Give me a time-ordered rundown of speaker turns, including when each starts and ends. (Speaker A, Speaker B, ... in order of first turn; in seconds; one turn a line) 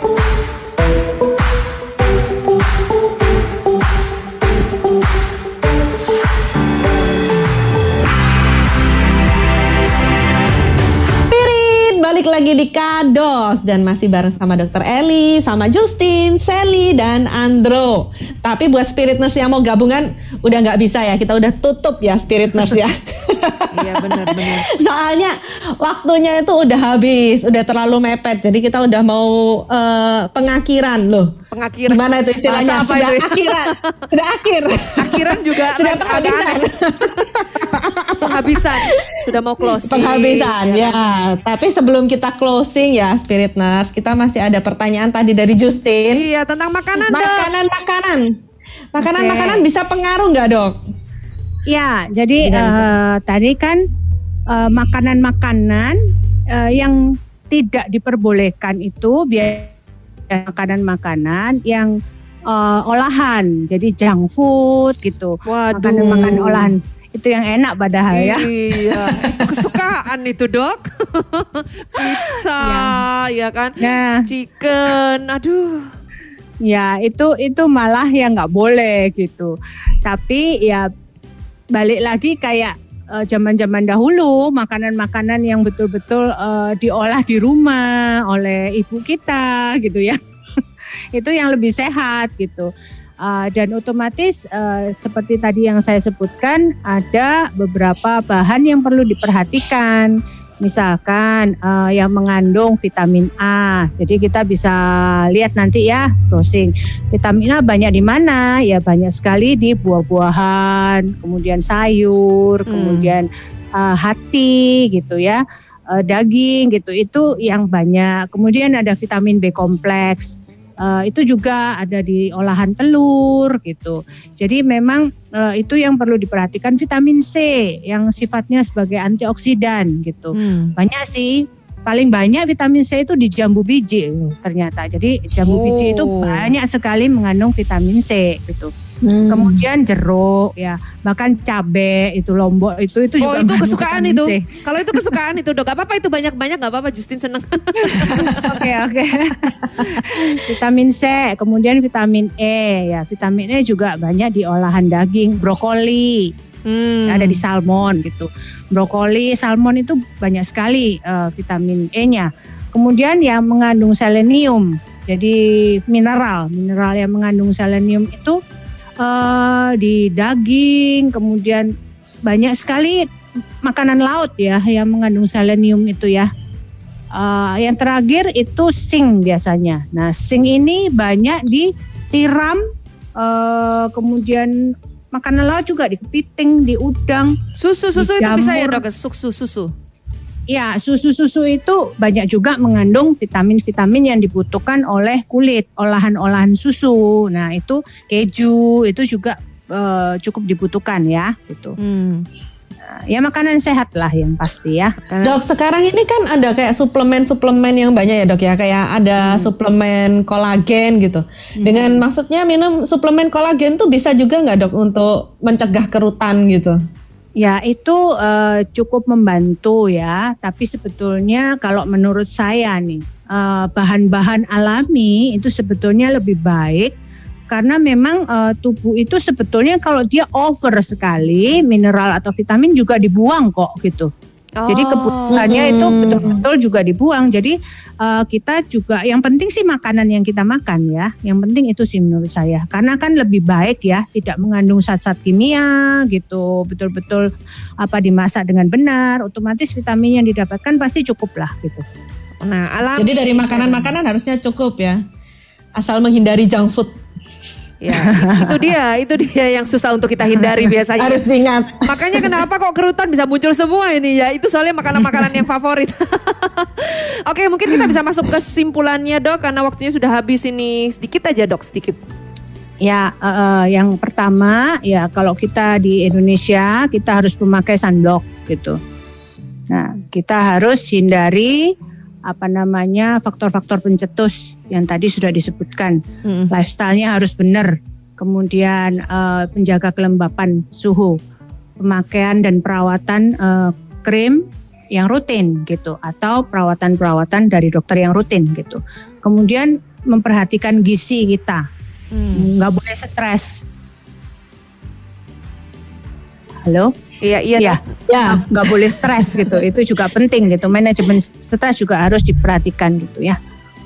Speaker A: 11.3-31.3
Speaker B: 23.7-24.7
Speaker B: 31.5-34.0
Speaker A: 31.9-39.2
Speaker B: 35.0-37.2
Speaker B: 38.2-41.0
Speaker A: 39.7-46.2
Speaker B: 46.1-47.5
Speaker A: 46.9-48.3
Speaker A: 48.9-50.8
Speaker C: 49.0-49.6
Speaker C: 51.7-53.8
Speaker A: 52.4-52.9
Speaker C: 54.5-56.0
Speaker C: 56.5-57.0
Speaker C: 57.5-59.7
Speaker C: 60.3-61.9
Speaker C: 62.5-68.5
Speaker B: 65.5-66.7
Speaker A: 66.0-66.3
Speaker B: 68.1-75.8
Speaker C: 72.6-73.0
Speaker C: 73.8-74.3
Speaker C: 76.7-79.5
Speaker C: 80.0-80.9
Speaker C: 81.7-90.2
Speaker C: 91.2-92.7
Speaker C: 93.2-115.4
Speaker B: 112.7-113.1
Speaker C: 115.9-138.7
Speaker B: 130.3-130.7
Speaker B: 135.4-136.5
Speaker A: 139.0-139.6
Speaker C: 139.3-144.4
Speaker B: 143.2-148.6
Speaker C: 144.9-145.2
Speaker C: 147.8-156.3
Speaker B: 149.8-150.1
Speaker B: 156.7-157.4
Speaker C: 157.1-165.4
Speaker C: 165.9-168.4
Speaker C: 169.0-171.7
Speaker C: 172.2-173.1
Speaker C: 173.6-176.3
Speaker C: 177.2-182.6
Speaker C: 183.2-187.3
Speaker B: 187.6-189.7
Speaker C: 188.0-188.8
Speaker C: 190.5-201.8
Speaker B: 201.8-202.2
Speaker C: 202.9-205.0
Speaker B: 205.1-205.4
Speaker A: 205.2-216.8
Speaker C: 209.2-209.5
Speaker C: 211.6-212.0
Speaker C: 217.4-226.9
Speaker C: 227.5-234.1
Speaker B: 234.6-236.3
Speaker C: 234.7-247.3
Speaker A: 235.3-235.8
Speaker C: 247.8-251.8
Speaker B: 252.4-253.9
Speaker A: 252.9-255.0
Speaker A: 255.8-257.0
Speaker B: 257.8-261.2
Speaker C: 257.9-258.6
Speaker A: 261.0-262.4
Speaker B: 261.8-272.0
Speaker C: 272.8-278.8
Speaker C: 279.7-281.7
Speaker C: 282.3-286.0
Speaker B: 286.2-286.5
Speaker C: 286.5-291.2
Speaker C: 291.8-294.4
Speaker C: 294.9-301.6
Speaker B: 302.1-302.5
Speaker C: 302.4-303.6
Speaker C: 306.6-306.9
Speaker B: 307.2-307.8
Speaker C: 307.6-313.4
Speaker A: 308.1-309.4